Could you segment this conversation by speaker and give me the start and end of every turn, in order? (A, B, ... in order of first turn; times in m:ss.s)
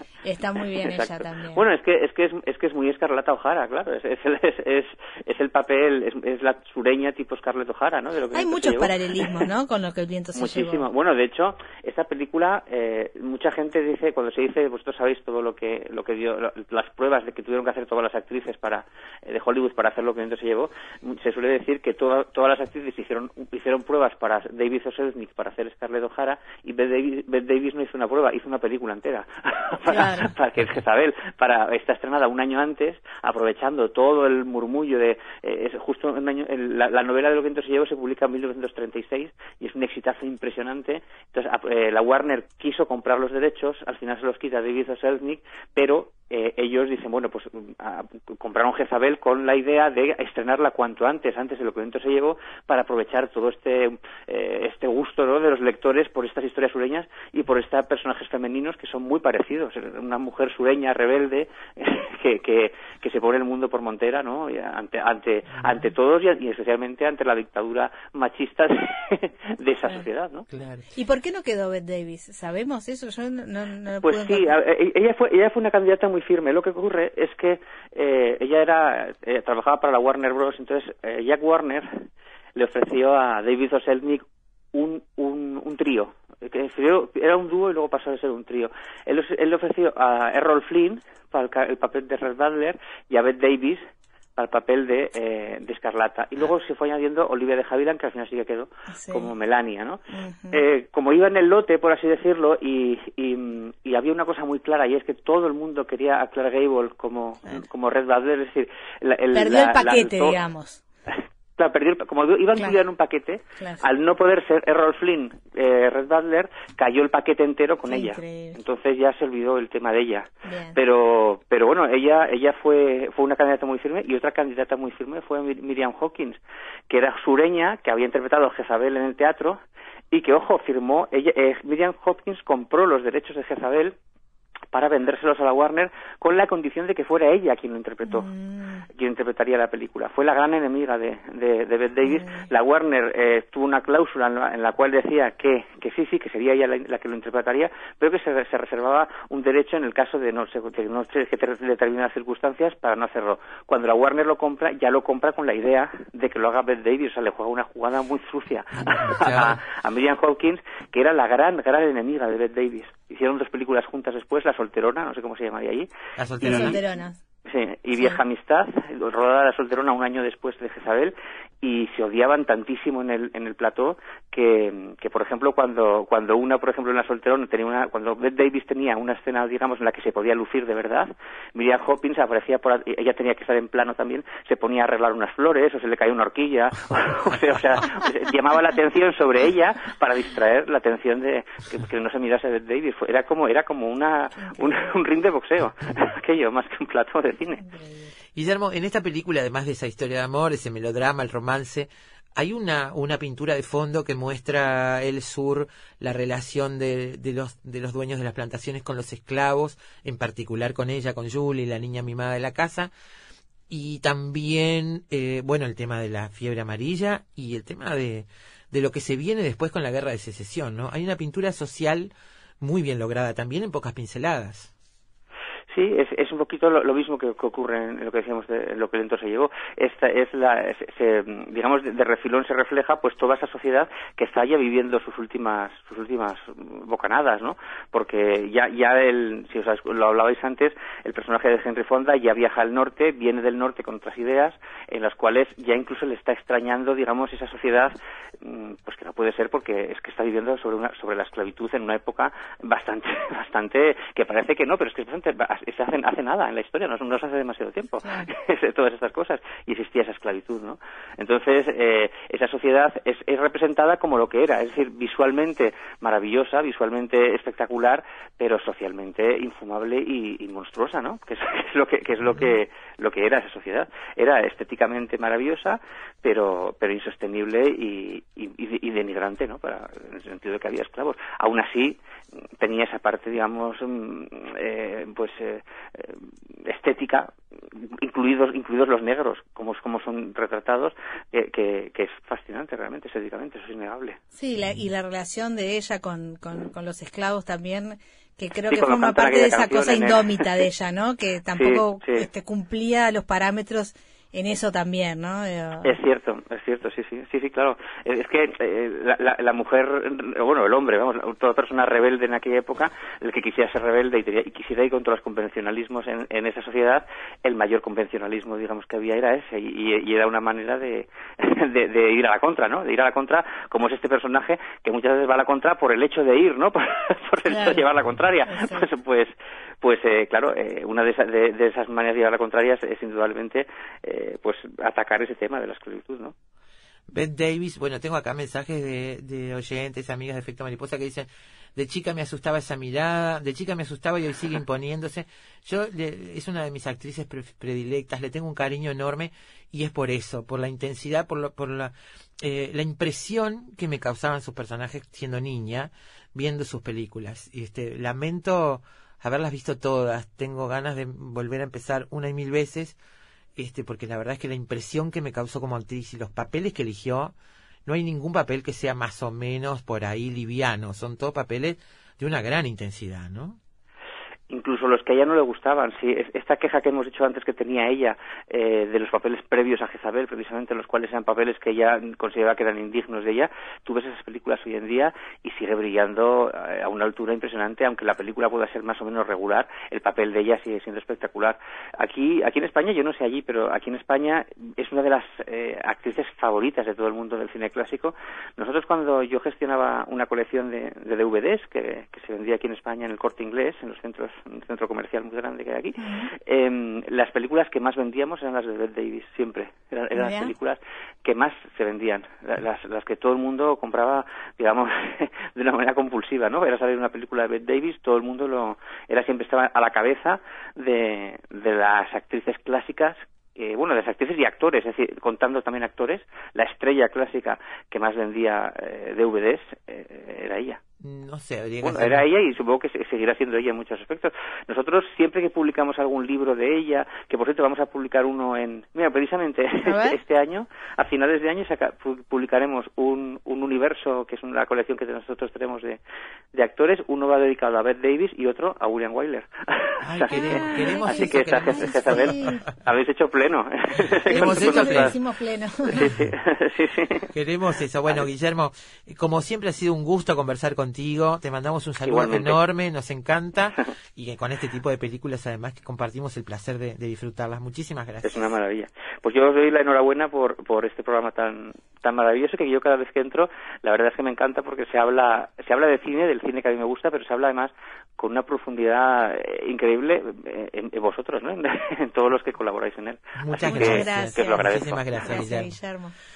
0:00.2-0:01.7 A
0:00.8-0:09.4 B
0:08.3-0:10.9 A
0:10.4-1:10.5 B
0:29.9-0:30.3 A
1:10.5-1:10.9 C
1:11.0-1:14.6 A
1:14.0-1:21.9 B
1:22.6-1:33.8 B
1:34.4-1:40.0 B
1:38.9-1:39.3 A
1:40.1-1:40.6 A
1:40.5-1:50.4 B
1:49.3-1:50.8 A
1:51.1-2:06.4 B
1:53.6-1:53.8 A
1:57.9-1:58.6 A
2:00.5-2:00.8 A
2:06.9-2:09.6 B
2:10.1-2:14.0 B
2:14.7-2:18.3 B
2:18.0-2:18.9 A
2:19.0-2:45.9 B
2:22.0-2:22.5 A
2:38.8-2:39.6 C
2:46.2-2:46.8 C
2:46.4-2:47.2 A
2:46.4-2:46.8 B
2:47.5-3:17.6 B
3:14.4-3:14.9 A
3:17.6-3:18.1 A
3:18.4-3:32.9 C
3:33.7-3:44.7 C
3:45.7-4:42.0 B
4:18.0-4:18.3 A
4:42.6-4:47.3 B
4:48.0-4:54.2 B
4:54.3-5:06.0 A
4:58.6-5:00.6 B
5:01.6-5:02.3 B
5:05.8-5:36.3 B
5:27.5-5:27.8 A
5:28.5-5:28.9 A
5:37.1-6:03.0 C
6:03.6-6:07.3 C
6:07.9-6:13.6 C
6:14.5-7:10.8 B
6:46.0-6:46.3 A
6:50.2-6:50.5 A
7:11.0-7:12.3 C
7:11.8-7:26.0 B
7:19.8-7:20.2 A
7:26.5-7:35.2 B
7:30.0-7:32.5 C
7:30.3-7:32.7 A
7:34.3-7:35.2 C
7:34.3-7:36.1 A
7:35.9-7:37.3 B
7:37.3-7:48.5 C
7:42.0-7:42.6 B
7:48.2-8:05.5 B
8:03.4-8:05.7 C
8:03.6-8:06.1 A